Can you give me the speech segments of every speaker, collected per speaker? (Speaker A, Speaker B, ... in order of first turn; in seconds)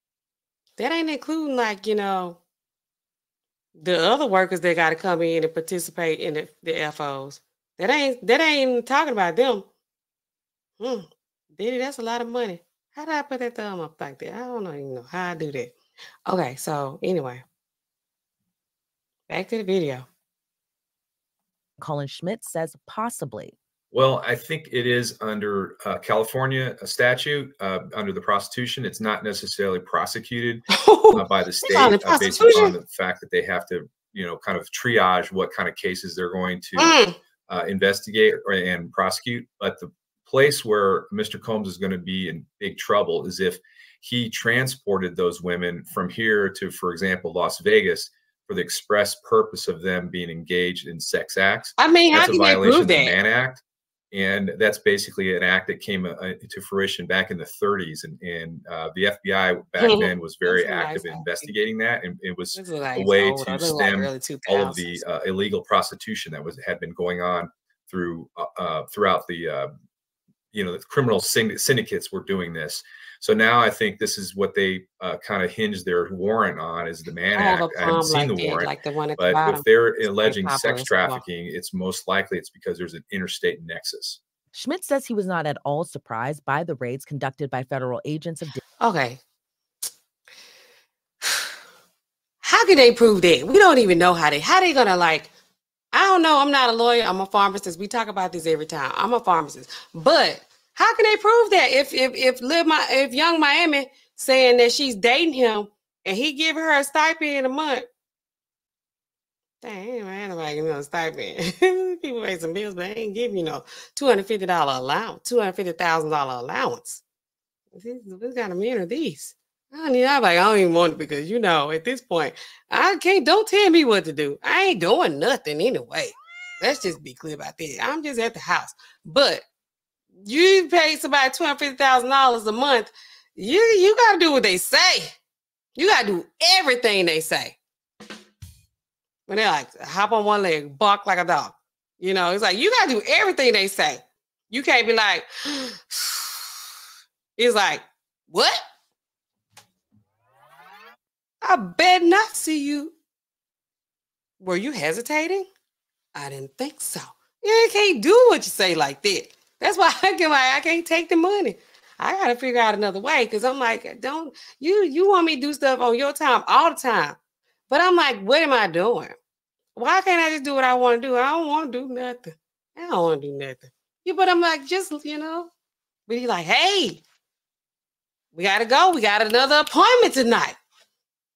Speaker A: 0.8-2.4, 3.8-9.7, 10.8-15.8, 16.3-17.4, 19.3-20.1, 30.7-32.8, 36.8-37.1, 51.8-53.2, 59.8-61.5, 62.5-65.0, 77.3-81.2, 88.8-89.2, 91.2-91.5, 92.4-95.3, 95.9-107.9, 109.6-117.0, 117.7-129.4, 130.2-135.1, 135.8-137.6, 139.3-146.4, 147.4-148.6, 151.4-153.0, 154.4-155.5, 156.2-167.2, 167.7-169.2, 169.8-175.5, 176.1-177.0, 178.3-180.6
Speaker B: 21.8-23.6, 84.5-88.6
Speaker C: 23.9-69.7, 70.5-84.2